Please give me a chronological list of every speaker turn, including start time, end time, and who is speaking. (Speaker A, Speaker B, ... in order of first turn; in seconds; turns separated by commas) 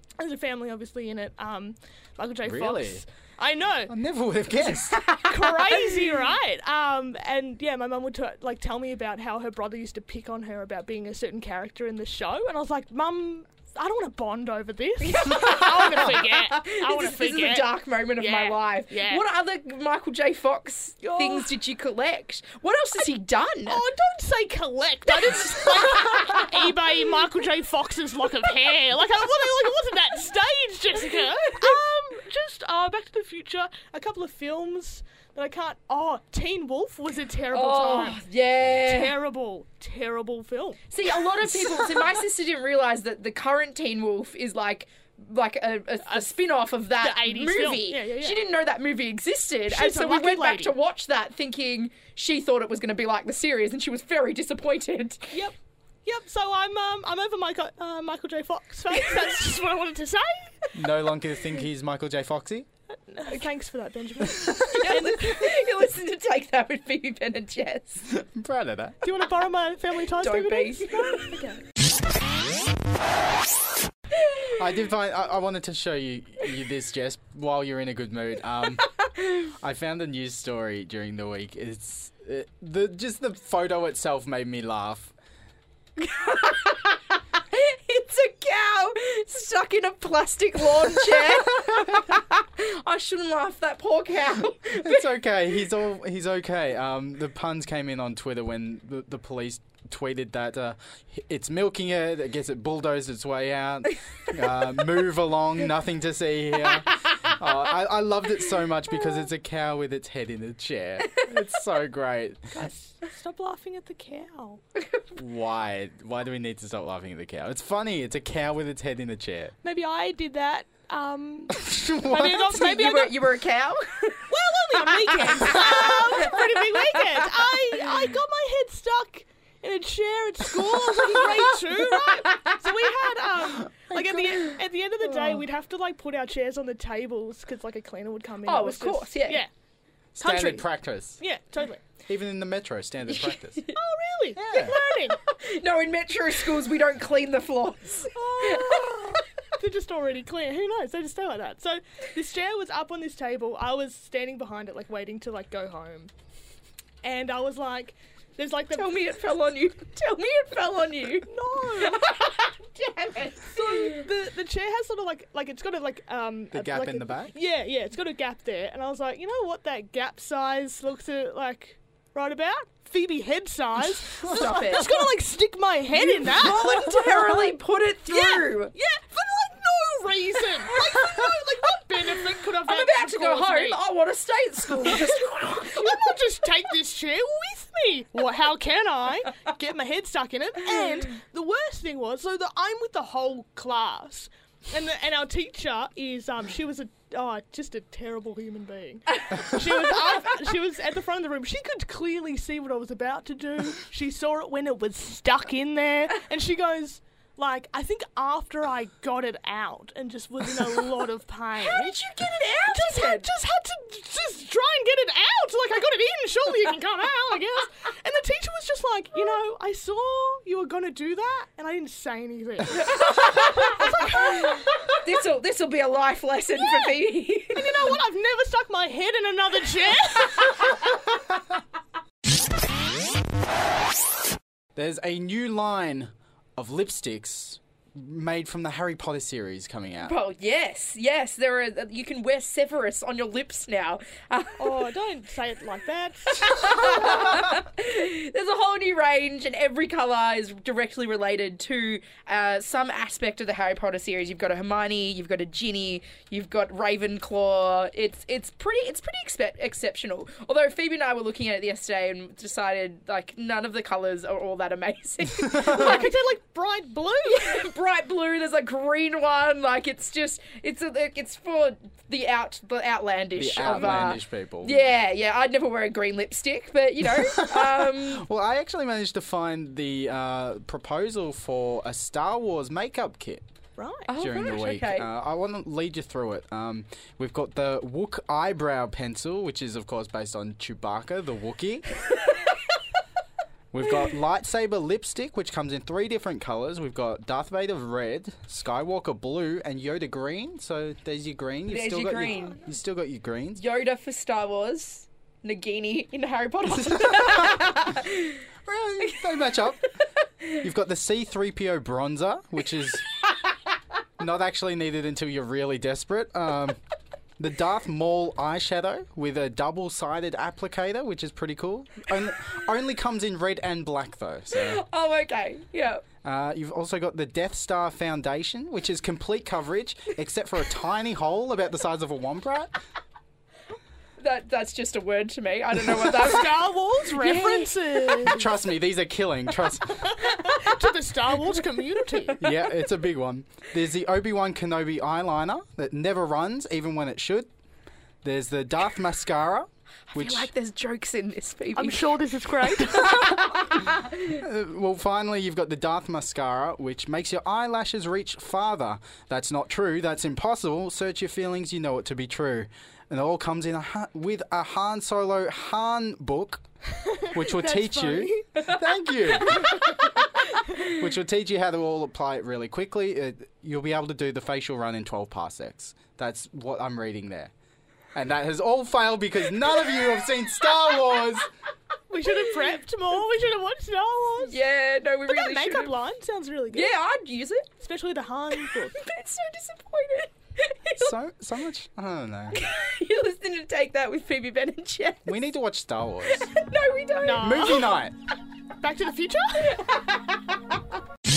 Speaker A: 0.2-3.9, Speaker B: 2.4-3.0, Speaker B: 3.9-5.1, Speaker A: 4.6-19.2, Speaker C: 15.0-23.8, Speaker A: 21.0-21.5, Speaker A: 23.6-38.2, Speaker C: 37.5-39.2, Speaker A: 38.8-42.1, Speaker C: 40.9-55.3, Speaker A: 46.0-46.3, Speaker A: 47.0-48.4, Speaker A: 49.7-50.7, Speaker A: 55.3-60.7, Speaker B: 60.7-62.7, Speaker A: 63.0-65.7, Speaker C: 64.7-68.0, Speaker B: 68.1-69.0, Speaker A: 69.0-71.6, Speaker C: 70.2-71.2, Speaker B: 74.6-78.9, Speaker B: 79.5-85.1, Speaker C: 86.0-95.0, Speaker B: 94.8-112.6, Speaker A: 112.5-114.6, Speaker B: 115.2-119.5, Speaker A: 119.6-123.2, Speaker B: 121.5-122.5, Speaker C: 122.5-127.2, Speaker A: 124.3-139.5, Speaker C: 138.4-139.4, Speaker B: 140.2-141.2, Speaker A: 140.2-140.7, Speaker A: 141.2-141.8, Speaker B: 142.1-143.6, Speaker C: 143.1-143.8, Speaker A: 143.8-145.2, Speaker B: 144.3-144.7, Speaker C: 145.1-149.2, Speaker A: 148.1-156.1, Speaker A: 157.0-159.1, Speaker C: 158.7-164.1, Speaker A: 161.2-162.1, Speaker A: 163.5-177.5, Speaker B: 166.5-167.3, Speaker C: 174.2-174.9, Speaker C: 176.0-178.7, Speaker A: 178.1-183.8, Speaker C: 182.7-186.1, Speaker A: 184.8-224.8, Speaker C: 211.6-213.3, Speaker C: 222.8-227.7, Speaker A: 227.5-230.6, Speaker B: 234.8-240.1, Speaker C: 240.0-244.8, Speaker A: 244.6-247.2, Speaker C: 246.3-266.1, Speaker A: 265.6-267.7, Speaker C: 267.3-278.2, Speaker B: 273.4-274.8, Speaker A: 273.8-274.1, Speaker B: 277.3-283.4, Speaker A: 283.8-284.1, Speaker C: 284.1-285.1, Speaker B: 284.1-291.9, Speaker B: 293.7-303.6, Speaker C: 301.7-302.6, Speaker C: 303.6-308.4, Speaker B: 306.9-307.8, Speaker B: 308.6-309.8, Speaker B: 310.6-313.1, Speaker B: 314.2-316.8, Speaker B: 317.4-324.8, Speaker C: 324.5-326.0, Speaker B: 326.2-332.7, Speaker C: 334.2-337.7, Speaker A: 335.9-338.5, Speaker B: 338.2-340.1, Speaker A: 340.2-342.4, Speaker B: 342.4-347.5, Speaker B: 348.2-350.5, Speaker C: 350.1-352.2, Speaker A: 351.8-353.3, Speaker C: 352.7-354.1, Speaker B: 354.3-366.6, Speaker A: 366.9-368.5, Speaker B: 367.3-369.8, Speaker C: 369.4-369.7, Speaker B: 370.8-377.5, Speaker B: 378.1-381.5, Speaker A: 382.1-384.6, Speaker C: 384.5-385.9, Speaker A: 385.3-386.9, Speaker C: 386.7-387.7, Speaker A: 387.8-389.0, Speaker C: 388.7-391.1, Speaker B: 391.0-392.6, Speaker C: 392.5-395.3, Speaker B: 395.2-396.5, Speaker C: 396.4-397.9, Speaker A: 397.2-397.9, Speaker B: 397.4-398.1, Speaker A: 398.8-399.8, Speaker C: 399.8-400.1